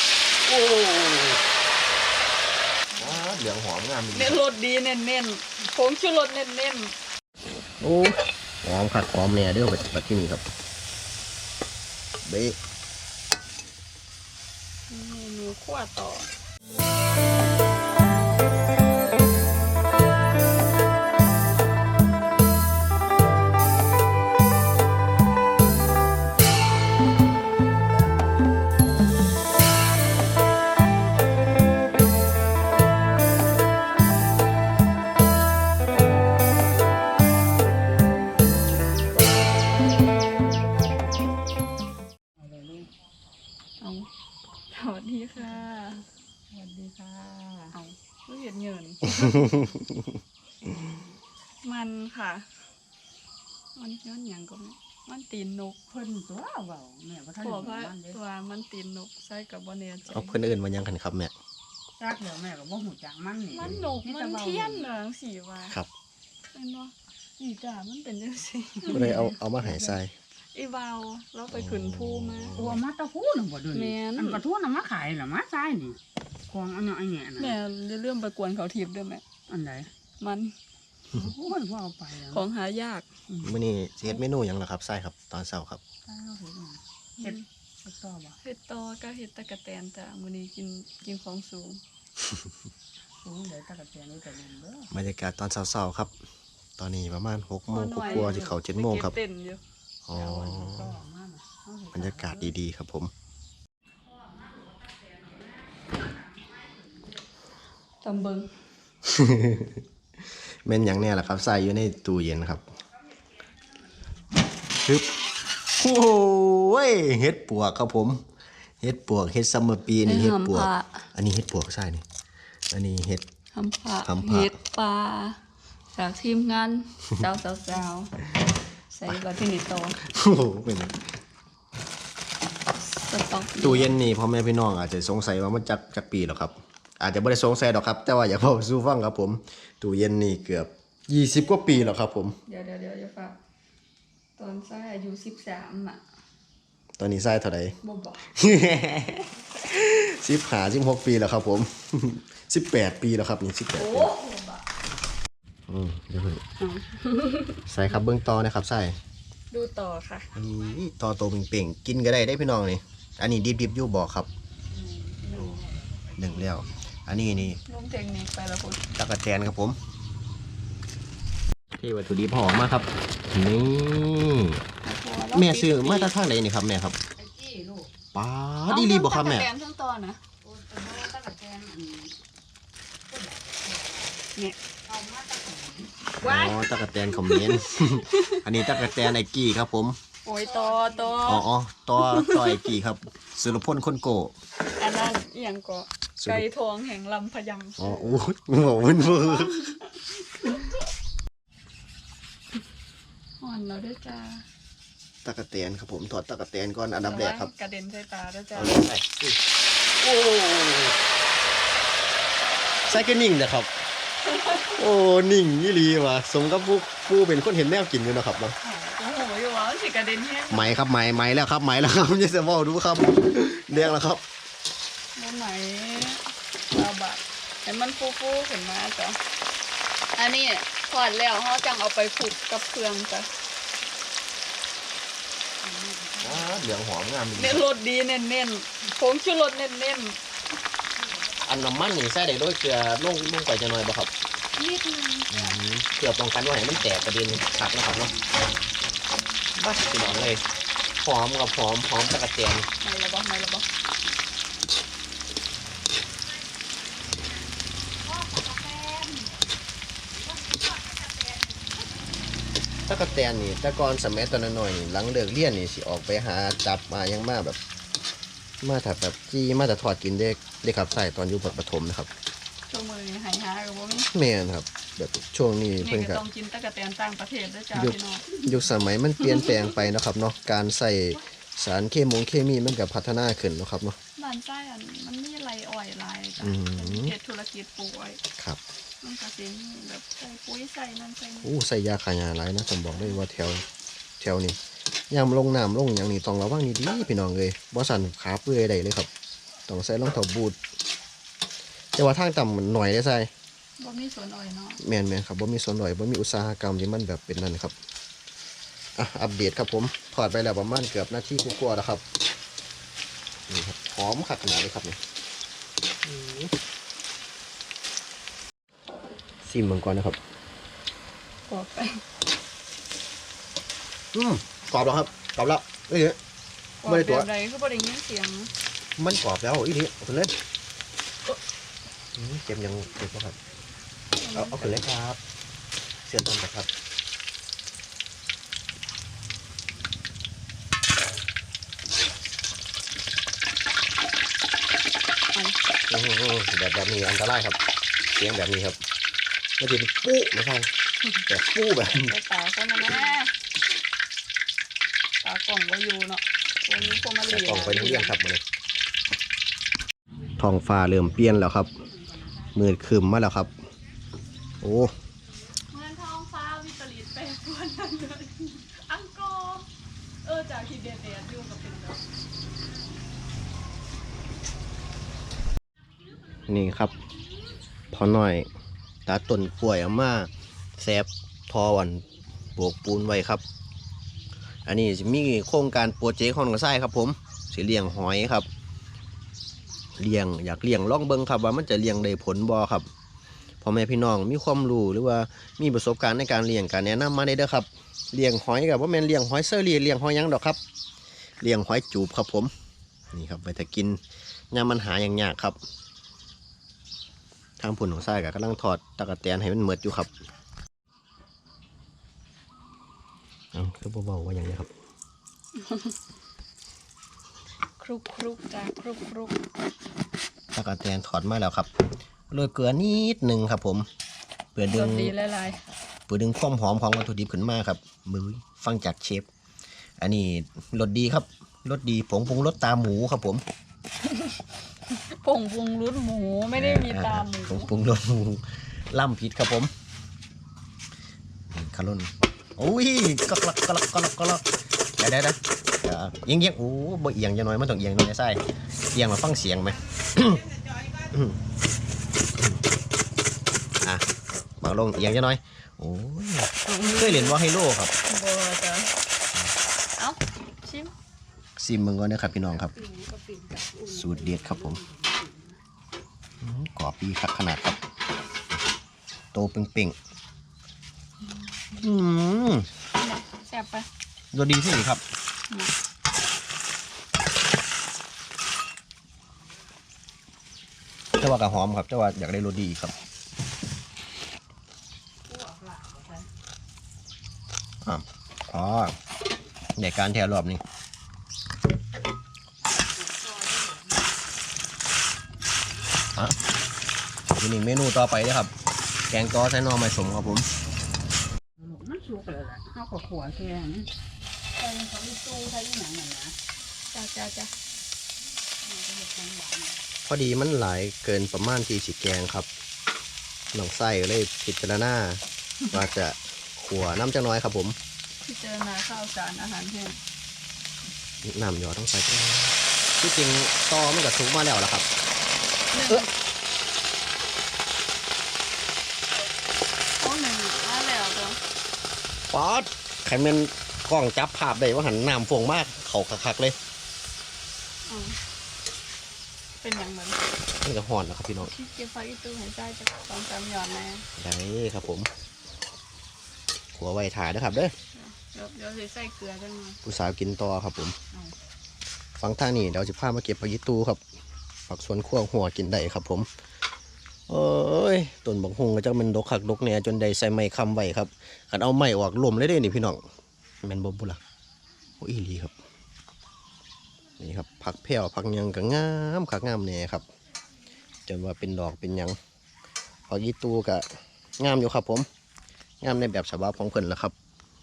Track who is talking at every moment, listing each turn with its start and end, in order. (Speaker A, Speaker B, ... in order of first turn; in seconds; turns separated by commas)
Speaker A: 0.5-1.4, Speaker A: 3.0-4.4, Speaker B: 4.1-6.9, Speaker A: 7.8-10.4, Speaker A: 12.2-12.6, Speaker B: 14.9-16.2, Speaker C: 42.4-42.9, Speaker B: 43.8-44.1, Speaker B: 44.7-46.0, Speaker C: 46.5-47.8, Speaker B: 47.7-49.6, Speaker B: 51.6-52.5, Speaker B: 53.8-55.8, Speaker C: 55.9-58.2, Speaker B: 57.4-60.4, Speaker A: 60.1-61.3, Speaker C: 62.0-64.9, Speaker B: 63.5-65.8, Speaker A: 63.6-64.0, Speaker B: 66.5-70.0, Speaker C: 68.8-69.3, Speaker A: 68.9-70.1, Speaker B: 70.5-72.6, Speaker A: 71.5-72.8, Speaker C: 72.5-76.0, Speaker B: 73.7-74.4, Speaker C: 76.5-77.6, Speaker B: 77.4-79.2, Speaker C: 79.5-79.9, Speaker B: 80.2-80.5, Speaker C: 81.1-82.4, Speaker B: 82.2-83.1, Speaker C: 83.3-83.5, Speaker A: 83.4-85.8, Speaker C: 86.0-88.4, Speaker B: 87.2-87.4, Speaker B: 88.4-91.8, Speaker C: 93.2-94.9, Speaker A: 94.9-96.1, Speaker A: 96.8-99.2, Speaker B: 97.7-99.6, Speaker C: 98.0-98.5, Speaker A: 100.0-101.0, Speaker C: 100.1-102.5, Speaker A: 101.9-103.1, Speaker C: 104.2-106.9, Speaker B: 108.0-108.5, Speaker A: 109.0-109.8, Speaker A: 110.6-112.6, Speaker A: 114.7-115.1, Speaker A: 115.7-118.2, Speaker A: 118.8-122.0, Speaker B: 120.0-121.0, Speaker A: 122.7-123.2, Speaker B: 123.5-125.4, Speaker A: 124.0-124.5, Speaker B: 125.9-128.1, Speaker B: 128.9-130.0, Speaker A: 130.0-131.1, Speaker B: 132.8-133.9, Speaker A: 133.6-142.4, Speaker B: 142.5-143.4, Speaker B: 144.4-146.0, Speaker A: 147.0-147.8, Speaker B: 147.8-148.3, Speaker A: 148.3-154.1, Speaker B: 153.8-154.7, Speaker A: 155.7-156.4, Speaker B: 156.6-157.6, Speaker A: 157.7-159.0, Speaker B: 159.5-160.3, Speaker A: 160.3-164.3, Speaker C: 164.7-166.7, Speaker A: 166.2-167.6, Speaker B: 167.7-168.9, Speaker A: 168.9-169.8, Speaker A: 171.8-174.6, Speaker B: 174.8-176.1, Speaker A: 175.3-177.0, Speaker C: 177.2-177.9, Speaker A: 178.1-179.5, Speaker B: 178.7-180.2, Speaker C: 180.4-182.2, Speaker C: 183.1-184.2, Speaker C: 184.8-185.9, Speaker A: 186.2-190.0, Speaker B: 186.2-189.1, Speaker B: 190.2-191.4, Speaker C: 190.3-191.4, Speaker A: 191.3-194.3, Speaker B: 192.1-192.6, Speaker B: 194.8-198.1, Speaker A: 196.2-196.4, Speaker A: 197.8-199.6, Speaker B: 198.8-199.9, Speaker B: 203.4-204.4, Speaker A: 205.2-207.5, Speaker B: 207.0-208.8, Speaker A: 208.6-209.4, Speaker A: 210.0-210.9, Speaker A: 212.9-213.7, Speaker A: 214.6-218.6, Speaker B: 218.6-220.8, Speaker A: 220.5-224.2, Speaker B: 225.2-229.2, Speaker B: 230.2-233.3, Speaker C: 235.6-236.5, Speaker A: 236.2-237.6, Speaker B: 237.4-240.2, Speaker A: 241.4-244.1, Speaker B: 244.6-245.6, Speaker A: 245.3-248.1, Speaker A: 249.6-250.4, Speaker A: 251.0-252.7, Speaker B: 252.8-253.7, Speaker C: 257.9-259.5, Speaker C: 260.1-261.9, Speaker A: 262.9-267.6, Speaker A: 268.6-272.1, Speaker B: 272.7-274.1, Speaker A: 274.1-276.2, Speaker B: 275.8-278.3, Speaker A: 277.7-284.0, Speaker B: 284.2-288.2, Speaker A: 286.4-287.1, Speaker B: 289.0-291.5, Speaker A: 291.4-293.6, Speaker B: 292.9-293.2, Speaker A: 294.2-294.6, Speaker A: 295.1-299.1, Speaker A: 299.7-300.6, Speaker A: 301.9-303.3, Speaker B: 303.8-304.8, Speaker A: 304.8-307.7, Speaker A: 308.9-312.0, Speaker A: 313.5-315.0, Speaker A: 316.0-316.5, Speaker A: 319.4-320.2, Speaker B: 321.5-322.0, Speaker A: 324.1-326.2, Speaker B: 326.8-328.5, Speaker A: 326.9-327.3, Speaker A: 329.0-330.3, Speaker A: 332.1-333.4, Speaker B: 334.2-334.8, Speaker A: 334.3-335.2, Speaker A: 336.0-336.7, Speaker A: 345.9-347.6, Speaker A: 348.1-348.8, Speaker A: 349.6-350.7, Speaker A: 351.3-352.1, Speaker B: 351.8-353.3, Speaker B: 355.2-358.1, Speaker A: 356.8-358.4, Speaker A: 360.4-361.7, Speaker A: 362.5-363.5, Speaker A: 364.6-364.9, Speaker B: 365.7-369.7, Speaker B: 370.2-372.0, Speaker A: 376.5-376.9, Speaker A: 377.9-378.5, Speaker A: 379.1-382.0, Speaker A: 382.6-383.4, Speaker A: 384.6-388.5, Speaker A: 390.0-392.9, Speaker A: 393.6-400.6, Speaker A: 401.4-402.5, Speaker A: 403.1-404.0, Speaker A: 404.5-405.6, Speaker A: 407.6-410.1, Speaker A: 413.5-414.7, Speaker B: 415.6-415.9, Speaker B: 417.8-419.4, Speaker A: 420.5-421.7, Speaker A: 422.3-423.9, Speaker A: 424.5-425.1, Speaker B: 424.7-425.6, Speaker A: 426.1-429.3, Speaker A: 430.0-433.4, Speaker B: 434.0-437.7, Speaker A: 436.5-439.7, Speaker A: 441.5-444.4, Speaker A: 445.0-448.4, Speaker A: 448.9-450.5, Speaker A: 451.1-451.4, Speaker A: 454.6-457.9, Speaker B: 456.7-457.4, Speaker B: 458.1-458.9, Speaker B: 460.0-460.9, Speaker A: 461.6-462.8, Speaker C: 462.5-465.6, Speaker A: 463.9-464.8, Speaker A: 466.4-467.8, Speaker A: 469.3-469.9, Speaker A: 471.7-472.7, Speaker B: 472.9-473.9, Speaker A: 474.3-475.0, Speaker A: 481.2-482.9, Speaker C: 485.2-486.3, Speaker A: 487.8-488.9, Speaker A: 489.8-490.6, Speaker C: 492.6-494.1, Speaker A: 497.3-498.5, Speaker A: 499.1-500.5, Speaker C: 501.6-503.9, Speaker C: 504.6-506.3, Speaker B: 506.9-507.5, Speaker C: 508.6-509.8, Speaker A: 510.0-512.5, Speaker A: 513.5-517.8, Speaker B: 518.2-520.0, Speaker A: 521.2-524.9, Speaker B: 525.7-526.1, Speaker B: 530.0-531.4, Speaker A: 532.3-536.5, Speaker B: 537.9-538.2, Speaker B: 539.6-540.2, Speaker A: 540.6-541.5, Speaker B: 541.4-544.0, Speaker A: 544.2-545.1, Speaker A: 546.8-547.7, Speaker B: 547.9-549.8, Speaker A: 549.8-551.0, Speaker A: 552.2-554.0, Speaker A: 554.7-556.3, Speaker A: 557.3-563.0, Speaker A: 563.6-564.2, Speaker A: 565.0-565.5, Speaker A: 567.2-570.0, Speaker A: 571.1-572.2, Speaker A: 573.1-573.9, Speaker A: 574.4-575.1, Speaker A: 575.8-577.1